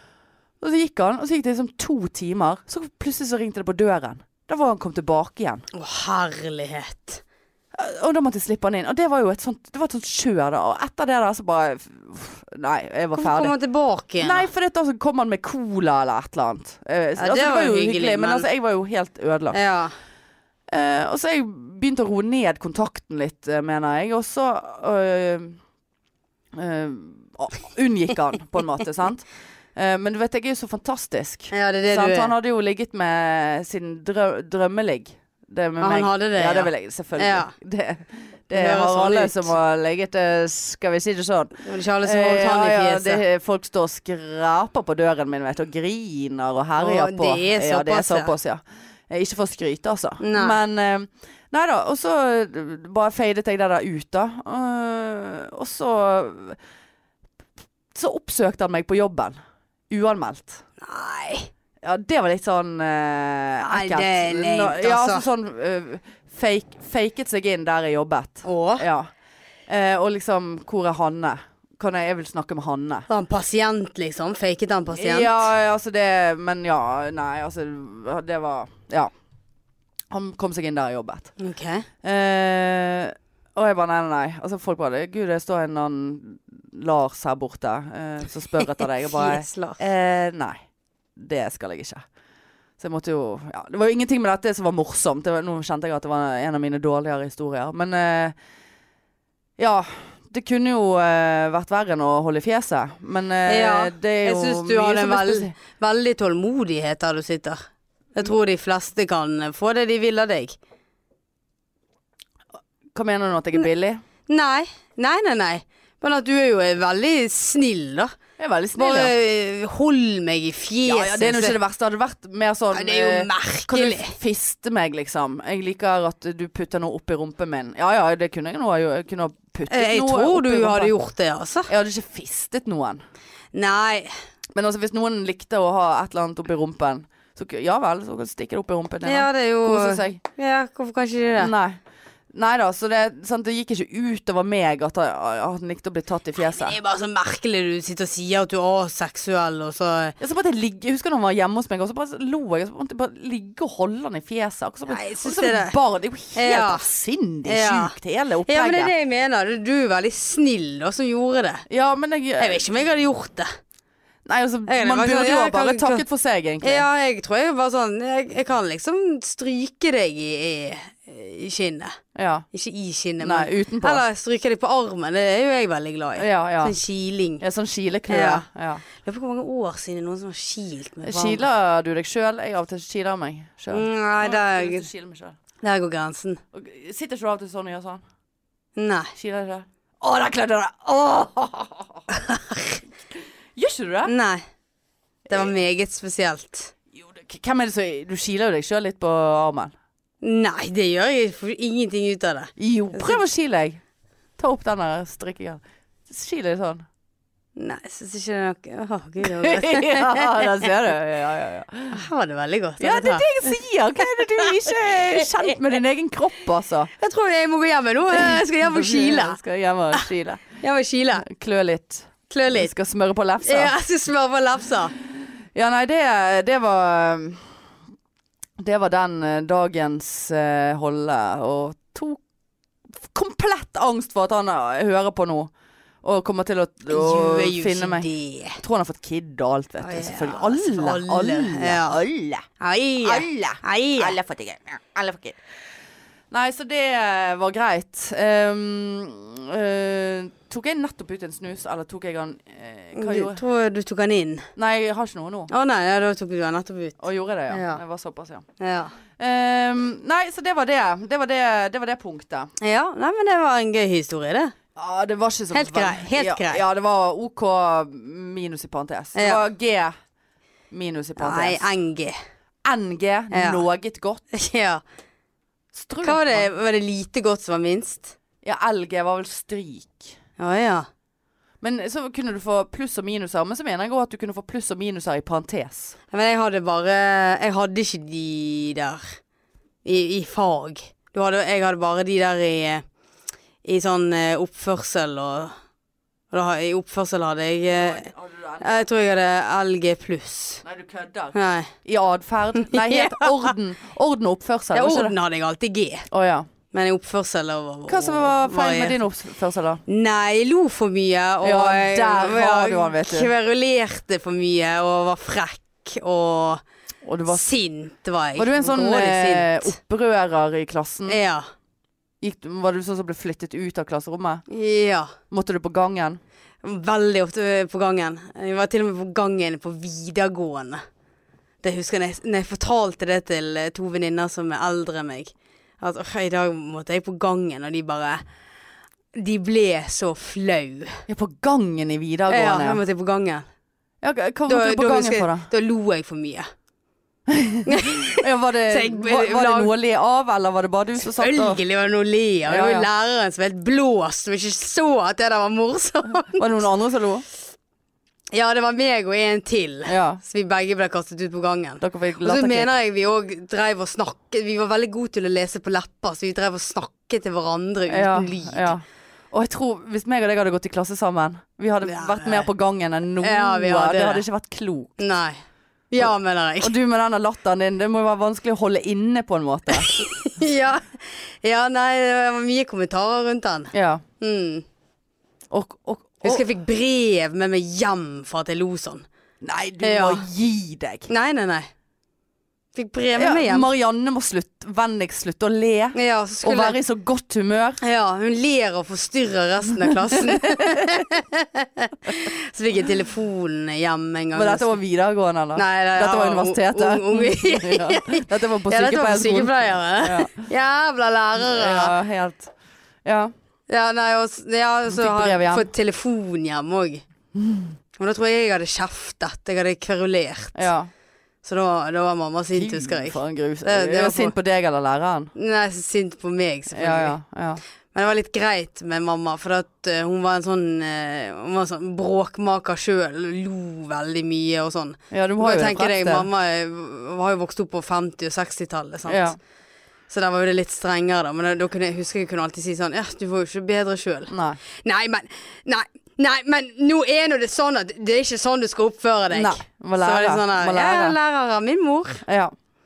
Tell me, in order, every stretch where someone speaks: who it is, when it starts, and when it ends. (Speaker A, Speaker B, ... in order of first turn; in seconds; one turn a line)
Speaker A: 0.6-5.6
Speaker B: 5.7-7.2
Speaker A: 7.7-13.5
Speaker B: 13.2-14.5
Speaker A: 14.2-19.6
Speaker B: 17.2-18.5
Speaker B: 19.5-19.9
Speaker A: 20.7-25.6
Speaker A: 26.5-56.6
Speaker B: 31.5-32.3
Speaker B: 35.8-37.5
Speaker B: 38.5-39.5
Speaker B: 41.6-43.2
Speaker B: 46.8-48.3
Speaker B: 50.2-50.6
Speaker A: 57.9-59.4
Speaker A: 59.9-60.6
Speaker B: 60.8-61.5
Speaker A: 61.8-69.1
Speaker B: 63.6-65.3
Speaker B: 68.4-68.8
Speaker A: 69.7-73.1
Speaker B: 73.1-75.4
Speaker A: 74.9-79.1
Speaker A: 80.1-81.3
Speaker B: 81.4-81.9
Speaker A: 82.0-90.6
Speaker B: 89.1-89.8
Speaker A: 91.2-92.0
Speaker A: 92.8-98.3
Speaker A: 99.6-105.5
Speaker B: 103.5-107.6
Speaker B: 108.2-110.6
Speaker A: 112.9-114.0
Speaker B: 114.3-118.1
Speaker A: 118.4-119.1
Speaker B: 118.8-121.6
Speaker A: 120.8-130.9
Speaker B: 122.7-124.2
Speaker B: 129.7-131.7
Speaker A: 131.7-133.0
Speaker B: 133.5-134.1
Speaker A: 134.5-140.2
Speaker B: 139.1-141.5
Speaker A: 141.4-141.8
Speaker A: 142.3-146.8
Speaker B: 146.4-150.2
Speaker A: 150.2-158.9
Speaker B: 154.9-155.8
Speaker B: 156.3-156.9
Speaker B: 157.4-161.7
Speaker A: 161.7-162.6
Speaker B: 162.4-163.5
Speaker A: 164.3-166.9
Speaker B: 164.7-166.0
Speaker B: 166.6-172.0
Speaker A: 172.2-172.5
Speaker B: 172.5-177.4
Speaker A: 173.2-174.0
Speaker A: 176.2-176.8
Speaker A: 177.4-178.8
Speaker B: 178.1-181.5
Speaker A: 181.0-185.4
Speaker B: 183.7-184.9
Speaker B: 185.6-186.4
Speaker A: 186.5-188.0
Speaker B: 188.8-189.1
Speaker A: 189.2-192.0
Speaker B: 192.1-192.8
Speaker A: 193.6-194.1
Speaker B: 194.1-194.4
Speaker B: 195.3-196.7
Speaker A: 196.9-199.7
Speaker B: 200.2-203.2
Speaker A: 202.6-203.8
Speaker A: 204.4-206.8
Speaker B: 207.6-210.6
Speaker A: 209.2-212.0
Speaker B: 211.9-214.9
Speaker A: 212.8-216.9
Speaker B: 217.0-219.4
Speaker A: 218.1-220.5
Speaker B: 220.6-221.3
Speaker A: 221.2-223.7
Speaker B: 222.3-222.7
Speaker B: 223.4-224.9
Speaker A: 225.6-227.5
Speaker A: 228.6-232.2
Speaker A: 233.0-235.5
Speaker A: 236.0-238.1
Speaker B: 236.9-238.6
Speaker A: 238.6-242.5
Speaker B: 239.8-242.0
Speaker B: 242.6-244.2
Speaker A: 243.0-245.4
Speaker A: 246.3-253.4
Speaker B: 252.9-254.5
Speaker A: 254.6-255.5
Speaker B: 255.5-257.0
Speaker A: 257.0-258.4
Speaker B: 257.5-257.8
Speaker B: 258.6-258.9
Speaker A: 259.2-262.5
Speaker B: 262.6-264.5
Speaker A: 264.8-269.9
Speaker B: 265.5-266.6
Speaker B: 269.1-269.4
Speaker A: 270.7-271.7
Speaker B: 271.2-272.2
Speaker A: 272.6-274.2
Speaker B: 273.3-273.6
Speaker B: 274.3-274.8
Speaker A: 275.7-276.5
Speaker B: 276.0-278.1
Speaker A: 278.4-280.1
Speaker B: 280.4-280.9
Speaker A: 281.6-286.0
Speaker B: 286.1-289.2
Speaker B: 289.9-292.8
Speaker B: 293.6-295.6
Speaker B: 296.3-298.1
Speaker A: 297.7-298.9
Speaker B: 298.6-300.6
Speaker A: 300.6-305.1
Speaker B: 301.3-301.7
Speaker B: 302.6-303.5
Speaker B: 304.7-306.1
Speaker A: 306.1-306.5
Speaker B: 306.7-309.0
Speaker A: 307.9-309.8
Speaker B: 309.9-316.6
Speaker A: 311.4-313.3
Speaker A: 317.1-317.5
Speaker B: 317.3-319.8
Speaker A: 318.4-321.2
Speaker B: 321.1-321.5
Speaker A: 322.2-324.4
Speaker B: 324.5-325.1
Speaker A: 325.3-326.2
Speaker B: 326.6-330.8
Speaker B: 331.6-338.2
Speaker B: 339.1-341.1
Speaker A: 341.1-342.8
Speaker B: 342.3-343.5
Speaker A: 344.0-345.5
Speaker B: 344.5-346.5
Speaker A: 347.3-351.6
Speaker B: 347.7-349.7
Speaker B: 351.0-356.6
Speaker A: 352.5-352.9
Speaker A: 356.3-357.2
Speaker B: 358.3-368.8
Speaker A: 359.9-360.2
Speaker A: 361.8-362.7
Speaker A: 367.9-375.0
Speaker B: 371.8-372.5
Speaker B: 373.2-374.2
Speaker B: 375.0-375.4
Speaker B: 375.9-376.7
Speaker A: 376.6-380.0
Speaker B: 379.7-384.6
Speaker A: 383.7-384.0
Speaker A: 385.5-386.4
Speaker B: 386.2-389.1
Speaker A: 389.4-391.1
Speaker B: 389.8-390.2
Speaker B: 391.1-391.7
Speaker B: 392.8-393.7
Speaker A: 393.2-397.8
Speaker B: 395.9-396.8
Speaker B: 397.8-404.8
Speaker A: 399.8-401.0
Speaker A: 404.3-410.5
Speaker B: 405.6-411.9
Speaker A: 411.4-412.5
Speaker A: 413.1-413.3
Speaker B: 413.7-417.0
Speaker A: 414.9-415.7
Speaker A: 417.4-417.8
Speaker B: 418.0-420.7
Speaker A: 420.6-420.9
Speaker B: 421.4-424.4
Speaker A: 422.6-425.3
Speaker B: 425.4-427.2
Speaker A: 426.7-427.6
Speaker B: 427.9-439.4
Speaker A: 435.1-436.3
Speaker A: 439.1-439.4
Speaker B: 440.1-452.2
Speaker A: 444.3-444.6
Speaker A: 449.3-451.2
Speaker A: 452.2-452.5